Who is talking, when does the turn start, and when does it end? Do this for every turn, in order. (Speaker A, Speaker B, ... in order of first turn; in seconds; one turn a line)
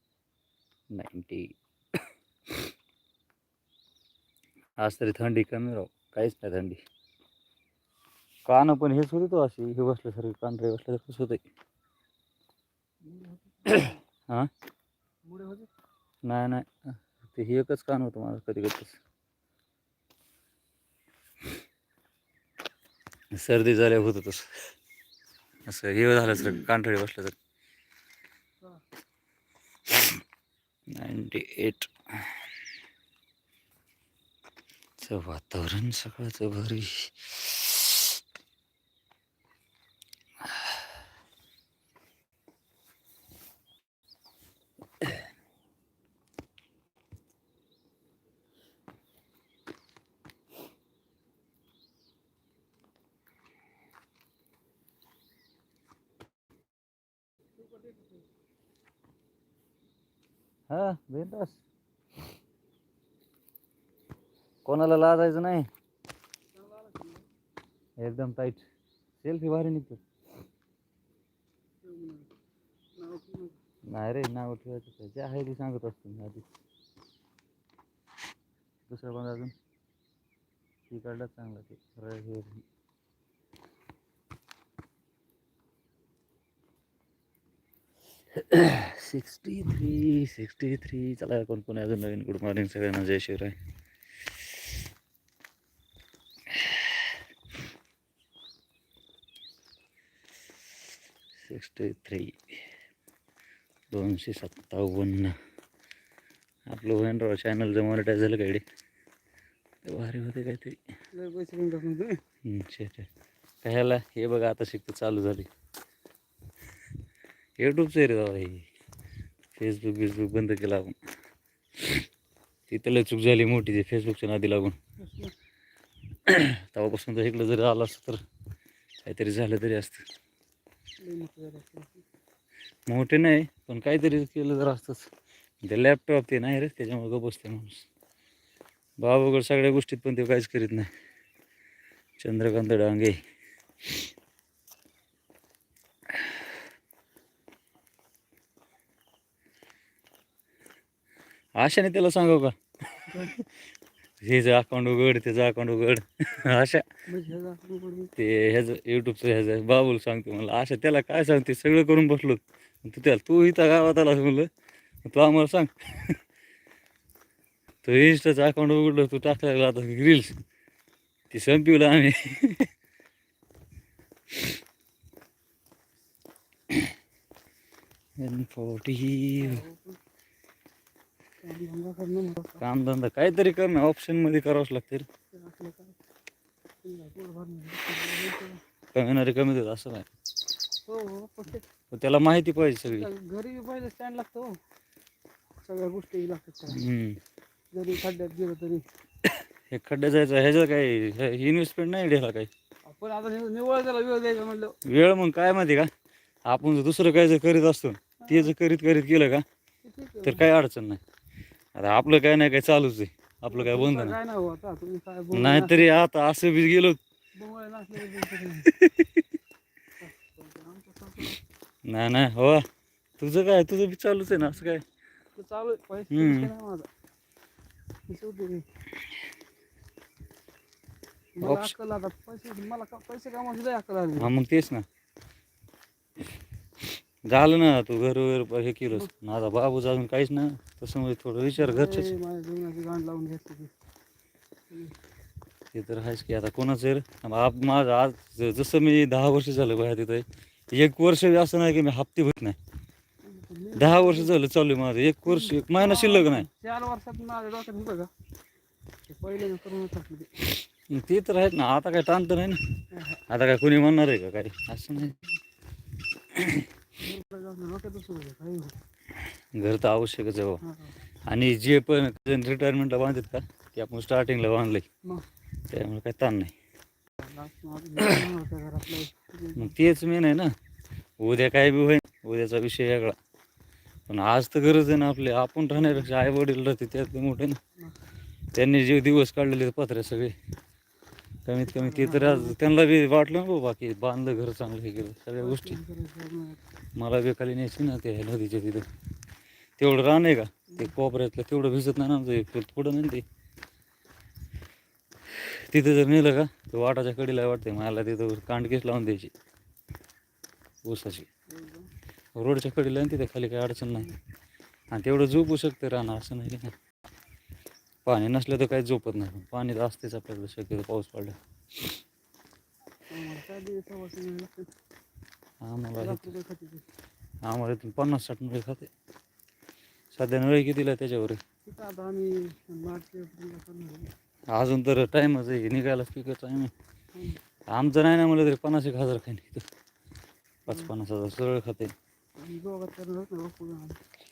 Speaker A: 0.9-1.6
Speaker A: 4.8-6.8
Speaker A: 8.5-11.4
Speaker B: 13.0-13.9
Speaker A: 13.7-14.5
Speaker B: 15.2-15.7
Speaker A: 16.2-16.7
Speaker A: 17.2-19.0
Speaker A: 23.3-24.5
Speaker A: 25.7-27.4
Speaker A: 30.9-31.9
Speaker A: 35.0-38.1
Speaker B: 57.8-58.0
Speaker A: 60.7-61.6
Speaker A: 64.6-65.7
Speaker B: 66.5-67.2
Speaker A: 68.0-68.6
Speaker A: 69.2-70.0
Speaker B: 71.8-72.3
Speaker B: 73.0-73.5
Speaker A: 73.9-76.4
Speaker A: 78.9-79.5
Speaker A: 80.9-82.6
Speaker A: 88.3-93.5
Speaker A: 96.5-97.1
Speaker A: 101.4-102.4
Speaker A: 103.9-105.3
Speaker A: 106.7-108.6
Speaker A: 109.8-110.8
Speaker B: 111.1-112.2
Speaker A: 112.4-113.1
Speaker A: 113.6-115.5
Speaker A: 117.6-118.7
Speaker A: 119.5-121.0
Speaker A: 122.7-124.7
Speaker B: 125.0-125.3
Speaker A: 126.2-128.2
Speaker A: 129.0-130.0
Speaker B: 131.0-132.0
Speaker A: 132.9-135.1
Speaker A: 135.6-137.8
Speaker A: 139.0-140.9
Speaker A: 142.2-143.2
Speaker A: 151.6-152.5
Speaker A: 153.1-153.4
Speaker A: 154.2-156.8
Speaker B: 157.1-158.1
Speaker A: 158.2-164.5
Speaker A: 165.0-166.2
Speaker A: 167.8-170.4
Speaker A: 171.3-172.7
Speaker A: 178.2-179.6
Speaker B: 179.4-180.0
Speaker B: 181.4-182.6
Speaker A: 182.6-185.1
Speaker B: 185.3-186.0
Speaker B: 186.8-188.6
Speaker A: 188.9-190.1
Speaker B: 190.9-191.6
Speaker A: 191.9-193.1
Speaker B: 192.9-194.6
Speaker B: 195.6-196.8
Speaker A: 196.7-197.2
Speaker B: 197.7-198.8
Speaker A: 199.2-202.5
Speaker B: 202.8-204.8
Speaker A: 204.8-205.9
Speaker A: 206.5-209.4
Speaker B: 208.2-208.5
Speaker B: 209.8-210.4
Speaker A: 210.2-211.0
Speaker A: 211.7-214.2
Speaker B: 213.5-215.9
Speaker A: 215.3-217.0
Speaker B: 217.4-218.7
Speaker A: 218.7-219.2
Speaker B: 220.0-221.4
Speaker A: 221.8-222.6
Speaker A: 223.2-224.8
Speaker B: 225.3-226.9
Speaker A: 226.1-226.5
Speaker B: 228.1-228.6
Speaker B: 231.4-234.3
Speaker A: 231.4-231.7
Speaker A: 234.2-234.8
Speaker A: 237.3-242.1
Speaker B: 241.6-243.7
Speaker A: 245.7-252.6
Speaker B: 253.2-254.3
Speaker A: 253.7-256.5
Speaker B: 255.2-258.1
Speaker B: 259.1-260.3
Speaker A: 260.9-262.6
Speaker B: 262.9-263.2
Speaker A: 263.3-265.2
Speaker A: 266.3-266.6
Speaker B: 267.0-268.7
Speaker A: 269.5-270.6
Speaker B: 270.6-270.9
Speaker A: 271.3-274.9
Speaker A: 275.7-276.5
Speaker B: 277.2-279.7
Speaker A: 279.6-280.5
Speaker A: 281.2-283.1
Speaker A: 284.1-287.6
Speaker A: 288.5-290.3
Speaker A: 291.4-295.8
Speaker B: 291.7-292.6
Speaker B: 295.4-296.6
Speaker A: 296.9-298.9
Speaker A: 299.8-303.2
Speaker A: 305.4-309.3
Speaker A: 310.8-311.3
Speaker B: 311.5-311.9
Speaker A: 312.4-314.1
Speaker A: 314.9-316.7
Speaker A: 318.0-321.4
Speaker B: 323.1-324.7
Speaker A: 325.6-326.3
Speaker B: 326.0-326.8
Speaker A: 327.4-328.9
Speaker A: 330.1-331.4
Speaker B: 331.6-334.1
Speaker A: 334.5-336.7
Speaker B: 337.1-337.4
Speaker A: 337.7-339.6
Speaker A: 340.6-341.9
Speaker B: 342.4-344.0